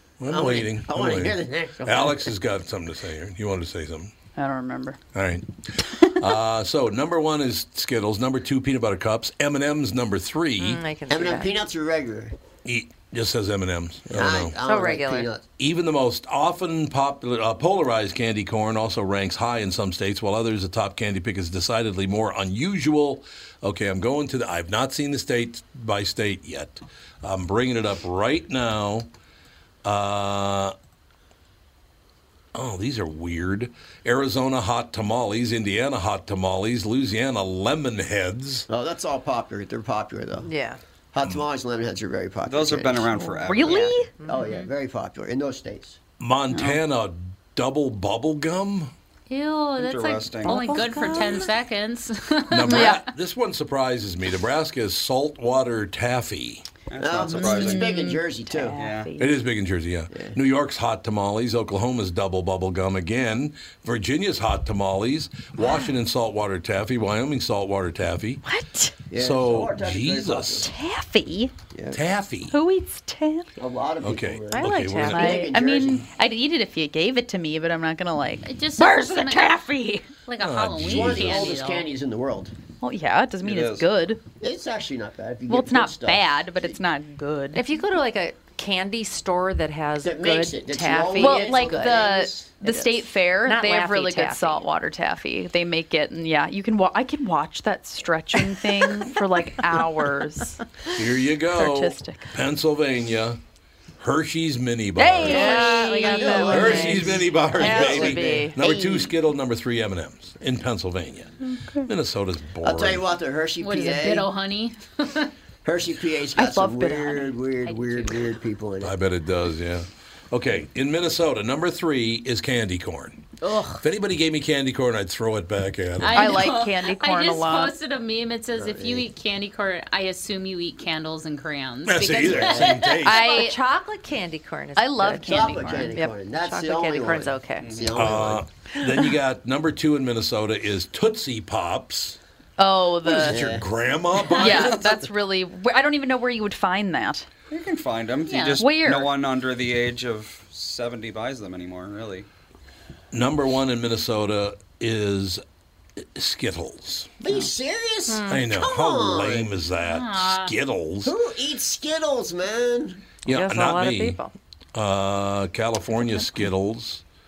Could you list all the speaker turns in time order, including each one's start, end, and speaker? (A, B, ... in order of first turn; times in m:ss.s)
0:00.2-0:04.1 A
0:00.3-0:02.3 B
0:04.4-0:05.0 C
0:05.1-0:10.8 A
0:10.6-0:11.5 D
0:11.1-0:12.4 B
0:12.6-0:14.6 A
0:14.2-0:15.4 B
0:14.6-0:15.3 D
0:15.6-0:29.1 A
0:29.8-0:30.8 A
0:32.5-0:38.7 A
0:38.7-0:40.5 B
0:40.4-0:40.8 D
0:41.1-0:43.1 B
0:42.5-0:43.9 E
0:43.2-0:44.1 C
0:43.7-0:46.0 B
0:43.7-0:44.4 D
0:44.4-0:44.7 F
0:46.2-0:48.9 A
0:46.5-0:46.8 C
0:49.3-0:53.0 F
0:49.8-0:50.6 E
0:50.4-0:51.5 D
0:52.5-0:56.6 A
0:52.7-0:53.0 C
0:56.9-0:57.8 E
0:57.0-0:58.8 B
0:57.2-0:59.3 C
0:58.8-0:59.1 E
0:59.2-1:08.4 A
1:05.6-1:05.9 D
1:08.4-1:09.0 D
1:09.1-1:10.7 B
1:09.2-1:10.7 A
1:10.6-1:11.5 D
1:11.7-1:12.0 B
1:11.9-1:12.5 A
1:12.5-1:13.4 C
1:13.6-1:16.1 B
1:14.0-1:15.4 A
1:14.5-1:15.5 D
1:15.1-1:19.2 C
1:18.4-1:19.5 F
1:18.8-1:20.0 D
1:20.3-1:21.9 F
1:20.4-1:21.4 A
1:20.8-1:22.5 B
1:22.8-1:24.2 C
1:23.4-1:23.9 E
1:24.4-1:26.8 B
1:25.5-1:27.6 C
1:27.5-1:34.7 D
1:30.0-1:32.6 B
1:31.2-1:40.6 C
1:41.0-1:43.4 A
1:41.5-1:42.3 C
1:44.0-1:45.7 A
1:45.0-1:46.6 C
1:45.2-1:48.5 D
1:45.2-1:49.1 B
1:46.2-1:53.0 A
1:48.2-1:48.5 C
1:51.5-1:51.9 C
1:52.6-1:54.3 B
1:53.6-1:55.3 F
1:55.6-1:58.9 B
1:56.4-1:57.3 C
1:57.6-1:58.4 F
1:58.8-2:03.2 A
2:03.4-2:03.8 F
2:03.8-2:06.5 A
2:06.0-2:13.0 F
2:06.1-2:07.7 C
2:08.5-2:09.1 B
2:11.9-2:13.2 A
2:12.1-2:12.8 B
2:13.0-2:13.6 C
2:13.1-2:18.1 D
2:14.8-2:16.0 C
2:15.3-2:18.4 B
2:17.6-2:18.0 E
2:18.0-2:22.2 A
2:22.6-2:23.4 C
2:23.2-2:23.6 B
2:23.2-2:24.8 A
2:24.4-2:25.0 E
2:24.4-2:27.3 C
2:27.5-2:32.3 E
2:28.3-2:28.6 F
2:28.6-2:29.1 C
2:33.1-2:35.4 A
2:36.0-2:37.1 A
2:37.2-2:39.5 B
2:38.1-2:38.4 D
2:38.3-2:41.1 A
2:39.8-2:40.5 F
2:41.0-2:43.0 B
2:43.2-2:44.2 A
2:43.3-2:44.3 D
2:44.7-2:47.0 A